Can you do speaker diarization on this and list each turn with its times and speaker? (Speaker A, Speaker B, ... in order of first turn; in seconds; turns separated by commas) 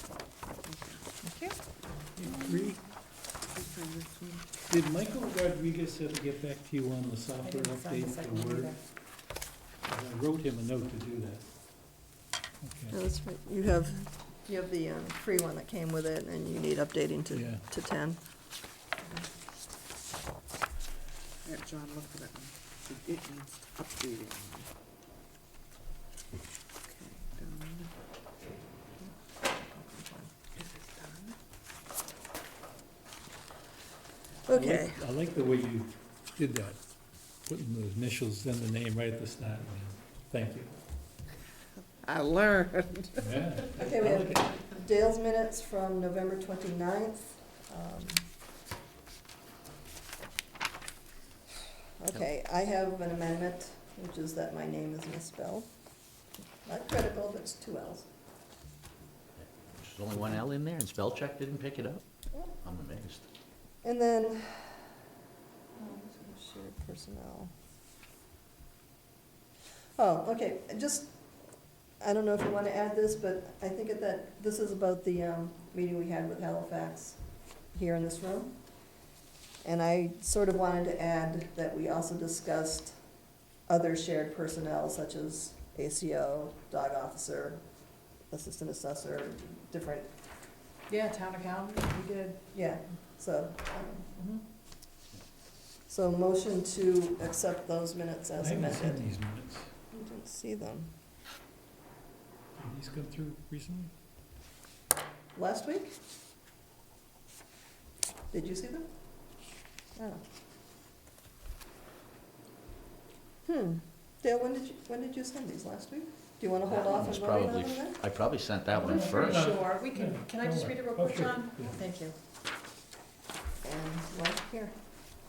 Speaker A: 0.6-1.2, Speaker B: 1.2-1.6, Speaker C: 2.1-2.9, Speaker A: 3.3-4.5, Speaker C: 4.7-12.0, Speaker B: 7.4-8.8, Speaker C: 12.6-13.0, Speaker D: 12.9-18.4, Speaker C: 17.3-17.7, Speaker A: 21.4-24.7, Speaker A: 26.9-27.9, Speaker D: 29.0-30.3, Speaker A: 30.6-31.4, Speaker D: 34.5-35.0, Speaker C: 34.5-40.8, Speaker A: 42.0-43.5, Speaker C: 43.2-44.5, Speaker D: 43.8-48.3, Speaker D: 52.0-55.9, Speaker D: 56.6-58.1, Speaker E: 59.4-63.3, Speaker D: 63.8-65.0, Speaker D: 65.8-67.5, Speaker D: 70.0-71.2, Speaker D: 72.0-79.1, Speaker D: 79.6-90.2, Speaker B: 90.9-92.5, Speaker D: 92.5-94.1, Speaker D: 95.9-99.1, Speaker C: 98.4-99.7, Speaker D: 99.9-100.9, Speaker C: 102.5-103.9, Speaker D: 105.3-106.0, Speaker D: 108.3-109.4, Speaker D: 110.0-110.2, Speaker D: 113.5-118.0, Speaker E: 116.7-119.5, Speaker B: 118.8-122.2, Speaker C: 118.8-121.8, Speaker D: 123.6-124.8